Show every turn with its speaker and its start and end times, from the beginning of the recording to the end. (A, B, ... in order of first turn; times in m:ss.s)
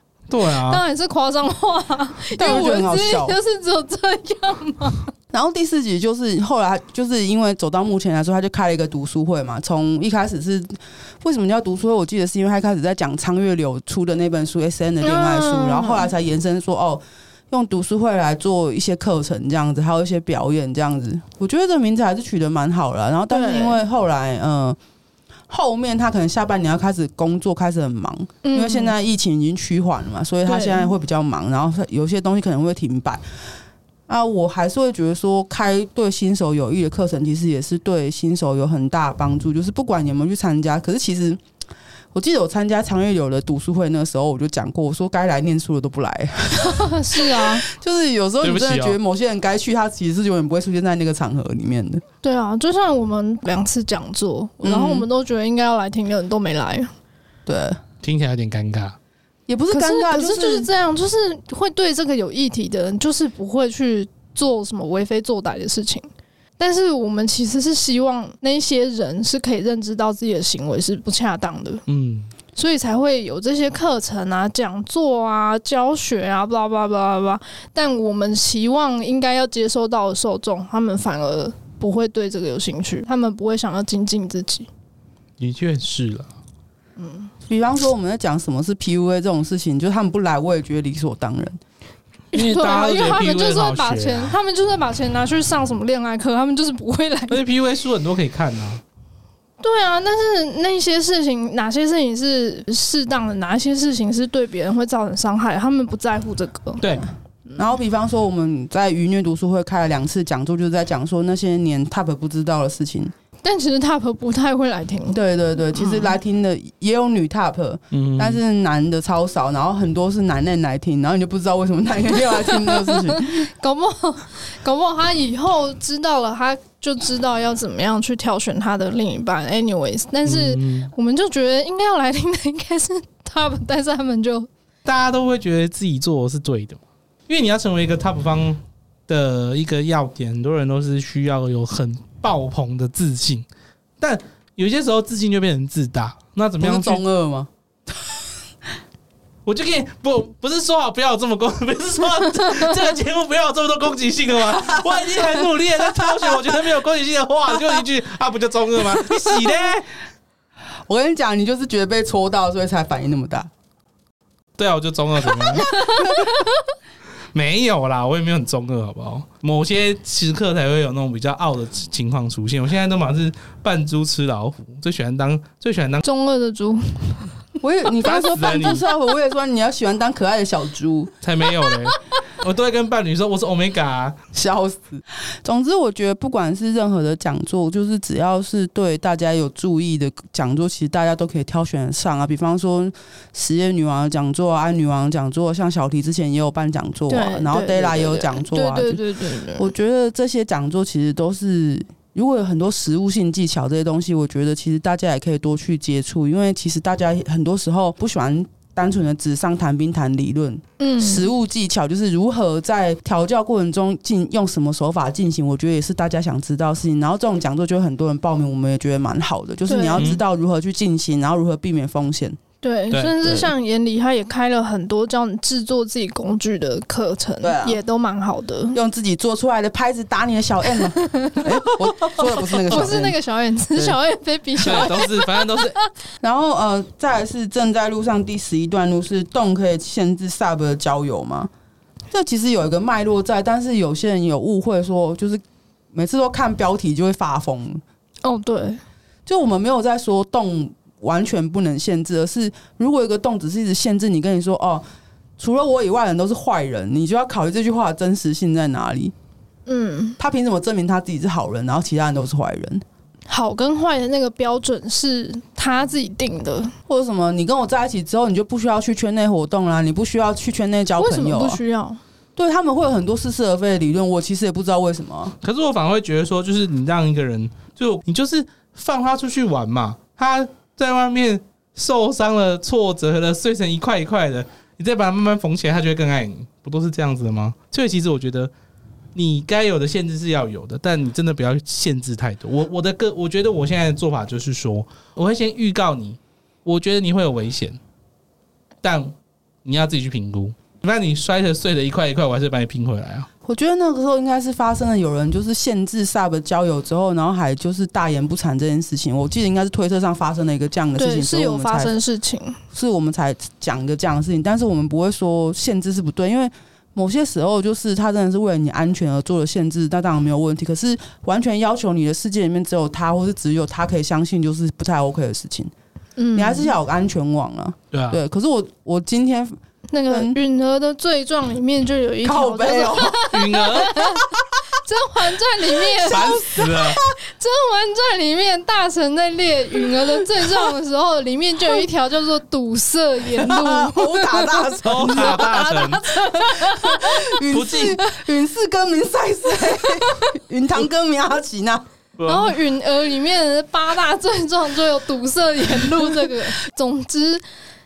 0:00.3-0:00.8 A
0:00.6-0:05.1 B
0:02.4-0:03.4 C
0:05.3-0:24.8 C
0:15.0-0:16.1 B
0:23.3-0:23.8 B
0:25.5-0:33.2 C
0:28.4-0:28.9 B
0:30.4-0:30.9 B
0:34.1-0:41.4 C
0:42.1-0:52.0 C
0:46.6-0:47.6 B
0:48.4-0:49.0 A
0:52.2-0:56.9 B
0:54.6-0:55.0 C
0:57.5-0:57.8 C
0:58.0-0:59.0 A
0:59.5-1:00.7 C
0:59.7-1:06.0 B
1:06.6-1:11.8 B
1:11.9-1:12.3 A
1:12.5-1:24.7 B
1:25.4-1:26.3 A
1:27.0-1:27.3 B
1:27.5-1:31.6 C
1:32.3-1:34.3 A
1:32.3-1:37.4 B
1:37.3-1:38.8 A
1:39.6-1:46.8 B
1:46.8-1:47.1 A
1:47.6-1:53.1 C
1:53.4-1:55.2 B
1:55.1-2:03.4 C
1:55.7-1:56.2 B
1:57.9-1:58.4 A
2:02.3-2:14.5 B
2:10.2-2:10.9 A
2:14.8-2:23.5 A
2:24.0-2:27.0 A
2:26.6-2:27.5 C
2:29.4-2:39.9 A
2:40.9-2:43.5 C
2:44.6-2:45.7 A
2:45.6-2:46.3 C
2:45.7-2:46.3 B
2:47.3-2:56.0 A
2:56.0-2:57.3 B
2:57.6-3:01.1 C
2:58.0-2:58.8 A
3:01.2-3:04.2 A
3:04.3-3:19.0 C
3:17.1-3:19.7 B
3:19.5-3:42.4 C
3:30.8-3:31.3 B
3:39.7-3:40.1 B
3:42.6-3:48.8 B
3:42.9-3:43.2 A
3:43.2-3:43.5 C
3:47.4-3:47.8 C
3:48.7-3:53.2 C
3:51.0-3:55.8 B
3:54.6-3:55.8 A
3:56.2-4:01.5 C
4:02.1-4:05.4 C
4:05.9-4:07.8 C
4:08.2-4:08.8 B
4:09.2-4:14.8 C
4:15.4-4:19.1 C
4:19.7-4:20.2 B
4:20.2-4:22.8 C
4:23.3-4:26.7 B
4:26.9-4:31.6 C
4:31.0-4:32.0 B
4:32.4-4:35.3 C
4:35.4-4:48.5 A
4:49.1-4:57.8 A
4:58.8-4:59.1 A
4:59.6-5:03.3 A
5:03.4-5:11.9 C
5:11.0-5:12.6 B
5:12.7-5:25.7 C
5:26.2-5:26.7 B
5:26.3-5:30.4 C
5:27.9-5:28.2 A
5:29.9-5:47.8 B
5:32.2-5:33.4 C
5:33.3-5:34.0 A
5:33.9-5:34.6 C
5:36.0-5:37.0 A
5:43.4-5:45.5 C
5:44.8-5:46.1 A
5:46.4-5:51.8 C
5:47.5-5:48.0 A
5:49.7-5:50.2 B
5:52.2-5:52.6 A
5:52.2-5:57.4 B